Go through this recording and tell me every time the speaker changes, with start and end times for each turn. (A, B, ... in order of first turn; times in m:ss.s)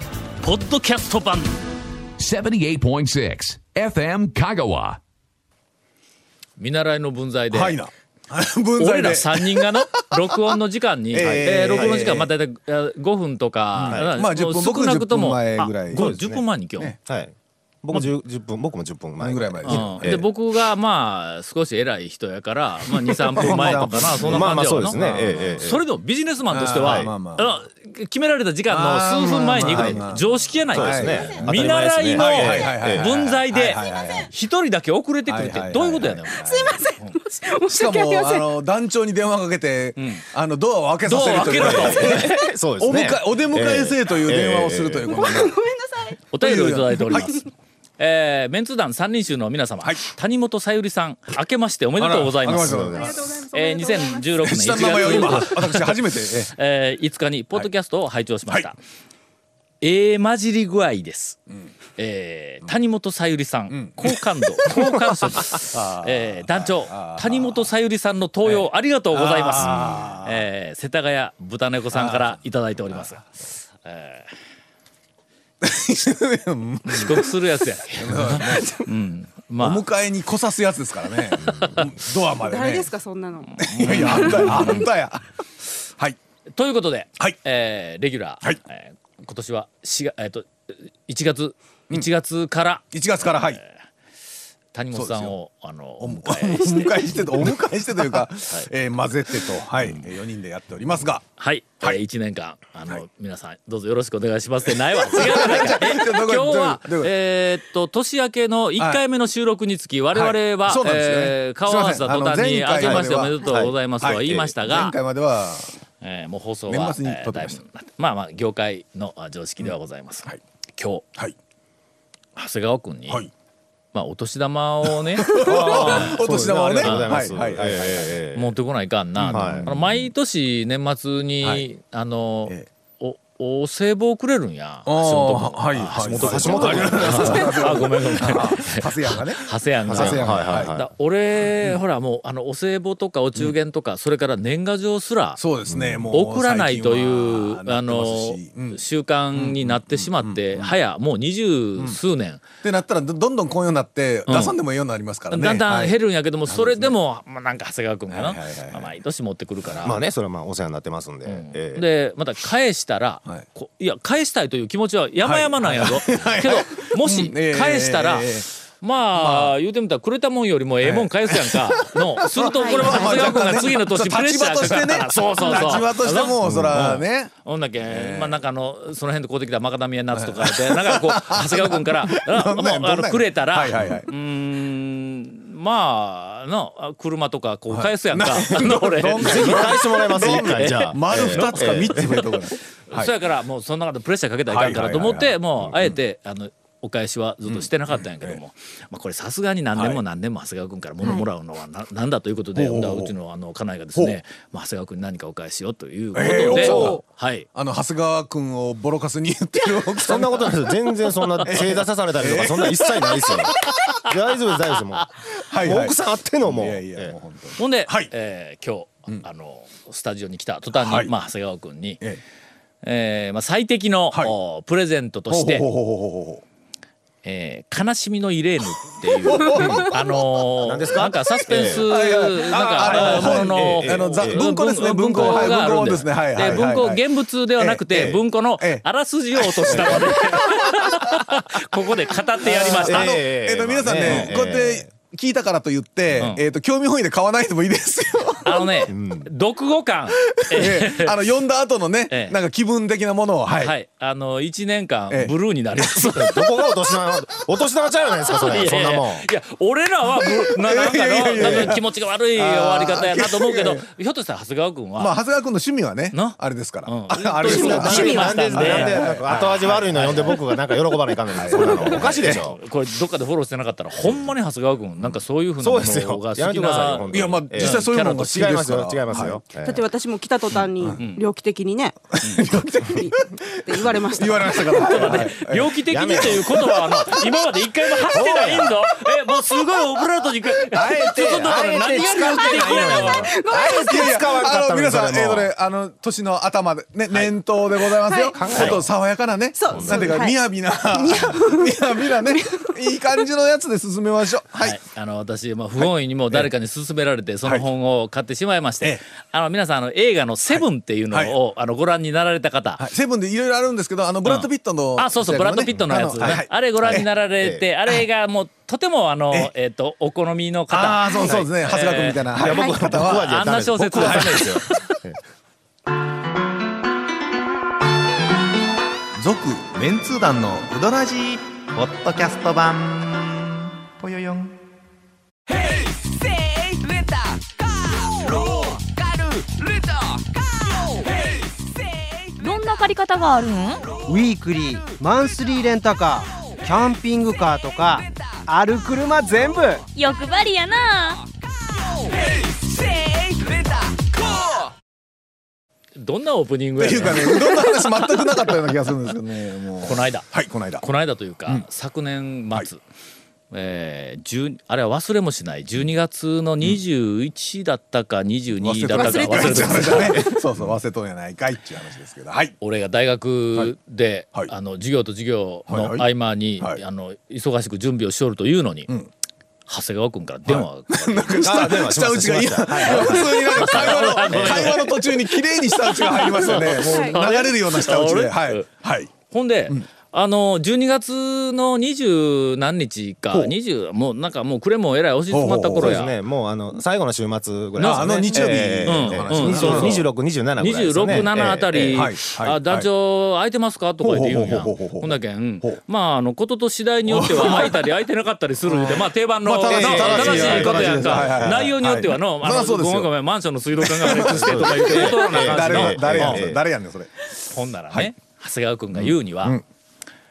0:00.4-0:01.5 A
0:02.2-0:05.0 B
0:06.6-0:07.8 A
0:07.5-0:10.5 C
0:08.8-0:16.9 A
0:11.1-0:12.3 C
0:11.2-0:12.1 D
0:13.8-0:16.1 C
0:15.9-0:16.4 D
0:17.0-0:20.2 D
0:19.2-0:20.2 C
0:19.6-0:37.2 A
0:23.0-0:25.6 C
0:23.4-0:25.8 D
0:26.5-0:27.5 C
0:26.8-0:27.1 D
0:28.7-0:34.3 C
0:29.6-0:30.0 D
0:30.7-0:33.1 D
0:33.8-0:34.2 E
0:35.3-0:36.7 C
0:36.3-0:38.5 E
0:37.7-0:45.6 C
0:40.0-0:40.2 A
0:41.0-0:42.2 A
0:41.7-0:45.2 D
0:45.1-0:46.2 E
0:46.3-0:47.4 A
0:46.4-0:47.3 C
0:48.0-0:52.9 A
0:52.0-0:53.2 C
0:52.6-0:53.2 D
0:52.9-0:55.6 E
0:53.5-0:55.9 A
0:54.4-0:56.5 C
0:56.5-0:58.8 A
0:59.8-1:01.4 A
1:02.0-1:13.2 A
1:03.7-1:07.7 C
1:08.4-1:10.4 C
1:11.9-1:12.4 C
1:13.8-1:14.3 A
1:15.6-1:17.4 C
1:16.8-1:19.8 A
1:18.0-1:18.8 C
1:19.6-1:22.9 C
1:21.4-1:21.8 D
1:21.4-1:21.8 A
1:22.4-1:24.8 E
1:23.6-1:25.2 C
1:23.6-1:24.8 A
1:26.6-1:33.7 A
1:32.9-1:33.6 C
1:34.7-1:37.2 A
1:34.9-1:35.3 C
1:36.0-1:41.2 C
1:38.2-1:38.7 A
1:41.4-1:54.9 A
1:44.7-1:47.1 C
1:50.1-1:53.4 C
1:52.8-1:53.7 D
1:54.0-1:55.7 C
1:56.0-2:01.0 A
1:56.7-1:57.6 C
2:02.4-2:03.2 A
2:03.9-2:06.1 A
2:05.2-2:08.1 C
2:05.5-2:08.5 D
2:06.8-2:07.4 A
2:08.3-2:25.4 A
2:09.2-2:09.7 C
2:09.3-2:10.1 D
2:14.8-2:20.7 C
2:16.0-2:17.7 D
2:16.6-2:17.7 E
2:19.8-2:20.9 D
2:25.4-2:28.8 C
2:25.7-2:26.1 D
2:26.1-2:32.4 A
2:29.3-2:30.7 C
2:32.6-2:36.0 C
2:34.3-2:34.6 A
2:35.3-2:40.0 A
2:36.5-2:36.9 C
2:38.1-2:38.9 C
2:39.8-2:41.9 D
2:41.2-3:12.3 A
2:45.2-2:48.4 C
2:49.2-2:49.5 C
2:50.8-2:58.4 C
2:52.5-2:53.4 E
3:00.1-3:04.1 C
3:07.7-3:13.1 C
3:09.2-3:12.1 D
3:12.9-3:27.5 A
3:14.5-3:15.9 C
3:17.4-3:18.4 C
3:19.7-3:20.0 C
3:22.6-3:23.1 C
3:26.1-3:27.0 C
3:26.2-3:27.0 E
3:26.5-3:27.0 D
3:27.5-3:30.5 C
3:30.0-3:37.1 D
3:31.3-3:31.6 A
3:31.5-3:33.4 C
3:35.4-3:38.1 C
3:37.6-3:42.0 A
3:40.7-3:41.1 C
3:42.8-3:45.7 A
3:45.3-3:46.4 C
3:47.2-4:03.1 A
3:49.2-3:49.8 C
3:49.5-3:51.9 D
3:51.7-3:57.0 C
3:52.8-3:54.4 D
3:57.6-3:58.8 C
3:59.4-4:00.8 C
3:59.7-4:00.0 D
4:02.4-4:08.7 C
4:02.8-4:04.9 D
4:04.0-4:04.3 A
4:06.2-4:06.4 A
4:08.4-4:11.1 A
4:08.9-4:09.3 D
4:10.2-4:13.7 C
4:12.1-4:12.4 A
4:13.6-4:16.6 A
4:16.0-4:19.3 D
4:18.4-4:25.2 A
4:20.5-4:23.8 C
4:21.4-4:21.7 D
4:25.0-4:30.3 C
4:26.1-4:30.3 A
4:27.3-4:32.6 D
4:27.5-4:28.4 E
4:31.3-4:32.4 C
4:31.6-4:38.6 A
4:35.6-4:39.8 D
4:37.1-4:39.4 C
4:39.6-4:42.0 E
4:41.0-4:41.2 A
4:42.1-4:47.2 C
4:42.8-4:45.2 E
4:44.8-4:53.3 A
4:45.9-4:46.6 D
4:48.0-4:48.8 D
4:50.7-4:55.5 D
4:50.8-4:54.3 E
4:53.8-5:04.8 C
4:58.0-4:58.6 E
4:58.3-4:58.8 D
4:58.5-4:58.8 A
4:59.6-5:03.0 E
4:59.7-5:00.2 D
5:04.6-5:12.9 A
5:05.8-5:06.5 C
5:10.5-5:11.3 C
5:12.8-5:17.1 C
5:14.2-5:22.3 A
5:16.2-5:17.6 D
5:20.7-5:23.3 C
5:21.2-5:21.5 D
5:22.3-5:25.2 D
5:23.0-5:24.8 A
5:24.0-5:24.6 C
5:29.2-5:34.6 F
5:38.0-5:39.5 F
5:40.7-5:41.0 F
5:42.4-5:43.8 G
5:44.0-5:49.8 H
5:49.9-5:51.2 G
5:53.3-5:53.6 F
5:56.0-5:57.6 A
5:56.8-6:00.8 C
5:59.8-6:02.8 A
6:03.5-6:10.3 A
6:08.6-6:12.5 C
6:08.9-6:10.3 E
6:12.6-6:18.9 A
6:15.7-6:16.1 C
6:19.7-6:21.5 A
6:20.5-6:29.1 C
6:21.4-6:24.8 D
6:22.8-6:28.6 A
6:26.8-6:27.2 E
6:29.3-6:36.1 A
6:35.3-6:36.0 C
6:35.8-6:42.0 D
6:37.8-6:40.0 A
6:37.8-6:40.0 C
6:40.6-6:56.4 A
6:41.9-6:42.9 C
6:44.0-6:45.8 C
6:47.0-6:47.8 C
6:48.6-6:53.1 C
6:49.6-6:51.7 D
6:53.8-6:58.1 C
6:54.1-6:56.6 D
6:57.5-6:59.6 A
6:58.9-6:59.6 C